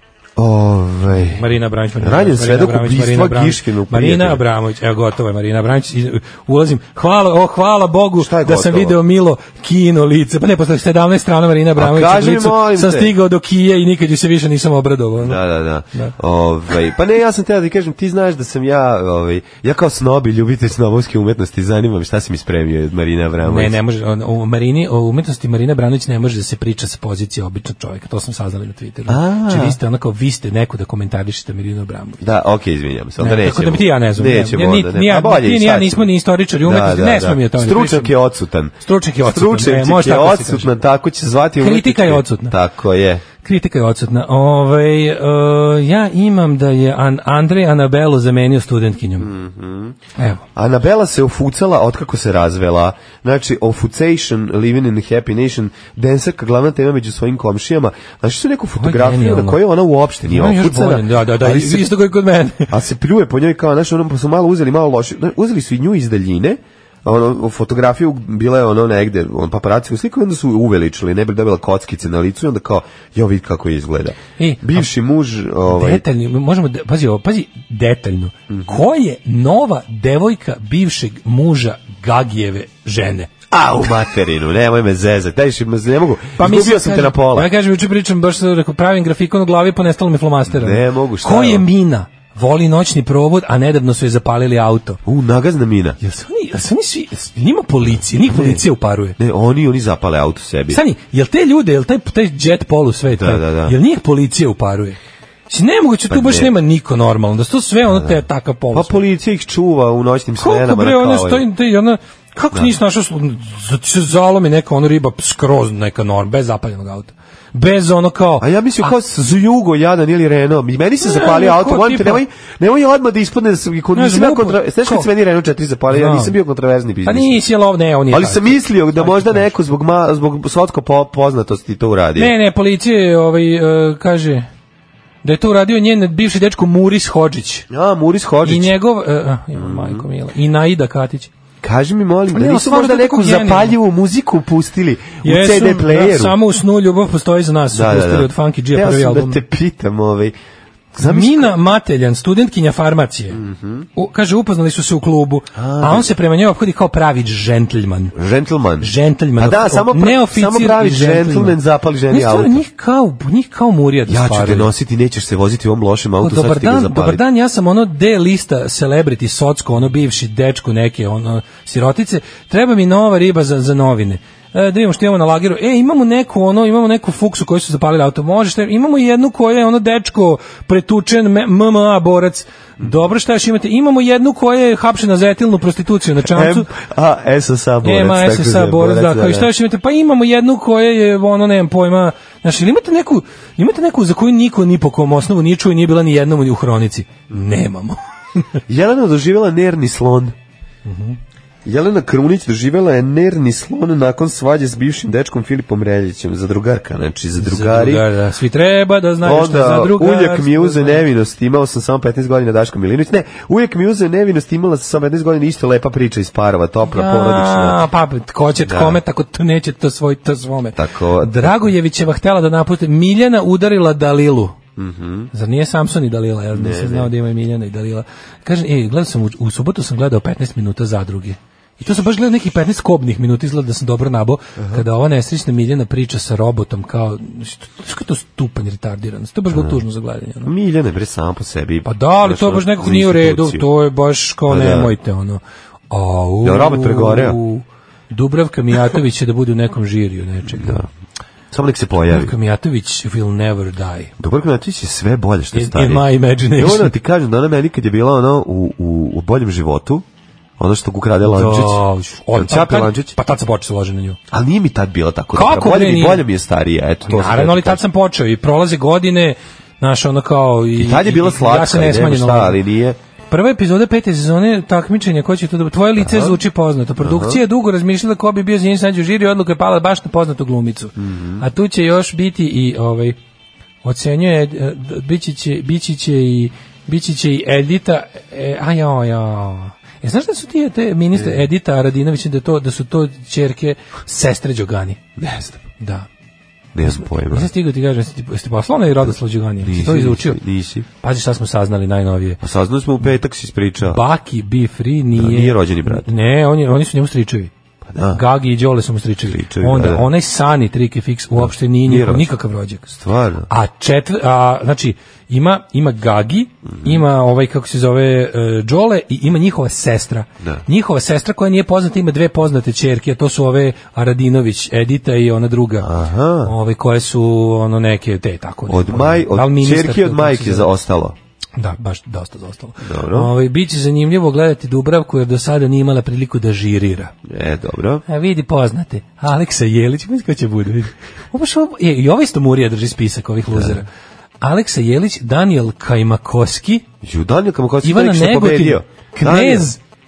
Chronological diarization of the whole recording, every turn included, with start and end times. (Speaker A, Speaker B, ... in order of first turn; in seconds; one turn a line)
Speaker A: 0.3-1.5
Speaker B: 1.1-15.4
Speaker A: 2.0-4.4
Speaker A: 8.2-9.0
Speaker A: 11.8-13.1
Speaker A: 15.2-23.8
Speaker B: 23.4-32.2
Speaker A: 29.1-29.8
Speaker A: 32.2-36.1
Speaker B: 33.2-38.1
Speaker A: 36.6-43.2
Speaker B: 38.8-40.7
Speaker B: 41.6-42.5
Speaker B: 43.4-49.3
Speaker A: 49.2-50.0
Speaker B: 50.2-50.4
Speaker A: 50.5-61.9
Speaker B: 58.8-59.6
Speaker B: 60.2-62.7
Speaker A: 62.7-76.0
Speaker B: 74.4-74.9
Speaker B: 75.7-83.3
Speaker A: 78.5-78.8
Speaker A: 83.5-87.5
Speaker B: 86.4-95.0
Speaker A: 90.5-91.7
Speaker A: 95.0-96.0
Speaker B: 96.0-99.2
Speaker A: 98.2-98.6
Speaker A: 99.2-100.8
Speaker B: 100.7-105.0
Speaker A: 103.1-103.8
Speaker B: 105.5-109.0
Speaker A: 106.1-106.5
Speaker A: 107.9-108.2
Speaker A: 108.7-111.5
Speaker B: 110.4-118.9
Speaker A: 118.4-127.4
Speaker B: 121.0-122.2
Speaker B: 123.9-125.1
Speaker B: 125.9-126.3
Speaker B: 127.0-129.5
Speaker A: 128.1-132.3
Speaker B: 132.2-134.5
Speaker B: 135.2-137.7
Speaker A: 137.7-138.8
Speaker B: 138.4-141.3
Speaker A: 139.5-140.1
Speaker A: 141.6-146.4
Speaker B: 142.3-143.7
Speaker B: 145.2-149.4
Speaker A: 147.7-150.3
Speaker A: 150.9-151.6
Speaker B: 151.0-153.4
Speaker A: 153.3-153.9
Speaker B: 153.9-158.1
Speaker A: 155.5-156.1
Speaker A: 158.1-162.6
Speaker B: 158.8-161.6
Speaker B: 162.1-164.7
Speaker A: 164.1-167.2
Speaker B: 166.2-186.7
Speaker A: 186.3-189.5
Speaker B: 187.8-198.0
Speaker A: 198.7-200.3
Speaker B: 200.8-201.2
Speaker A: 201.6-208.0
Speaker B: 207.4-211.0
Speaker A: 209.2-217.8
Speaker B: 216.9-224.6
Speaker A: 218.6-219.0
Speaker A: 220.7-221.7
Speaker A: 224.8-225.3
Speaker B: 225.3-240.5
Speaker A: 226.5-227.1
Speaker A: 234.6-234.8
Speaker A: 239.5-239.8
Speaker A: 240.4-243.7
Speaker B: 241.8-250.8
Speaker A: 244.5-244.9
Speaker A: 246.4-247.4
Speaker A: 250.5-250.9
Speaker A: 251.5-252.3
Speaker B: 252.1-254.1
Speaker A: 254.2-260.0
Speaker B: 255.5-256.9
Speaker A: 260.6-263.1
Speaker B: 261.2-264.2
Speaker A: 264.3-267.8
Speaker B: 265.3-266.2
Speaker B: 267.1-272.6
Speaker A: 270.8-273.0
Speaker B: 273.3-283.2
Speaker A: 276.0-276.4
Speaker A: 277.0-277.4
Speaker A: 281.0-281.4
Speaker B: 283.8-295.0
Speaker A: 291.1-291.4
Speaker A: 295.2-295.6
Speaker B: 295.8-296.1
Speaker A: 296.7-297.5
Speaker B: 296.8-300.4
Speaker A: 299.0-300.9
Speaker B: 301.0-302.4
Speaker A: 302.4-304.0
Speaker B: 303.8-307.5
Speaker A: 305.1-306.1
Speaker A: 307.9-308.2
Speaker B: 308.1-312.9
Speaker A: 309.3-310.1
Speaker A: 311.3-312.3
Speaker A: 312.9-313.5
Speaker B: 313.5-325.9
Speaker A: 316.7-317.0
Speaker A: 325.8-326.5
Speaker B: 326.4-330.7
Speaker A: 328.7-331.1
Speaker B: 331.6-337.1
Speaker A: 332.8-333.3
Speaker A: 337.3-338.0
Speaker B: 338.1-343.9
Speaker A: 343.5-343.8
Speaker B: 344.4-346.8
Speaker A: 347.0-349.7
Speaker B: 347.8-349.8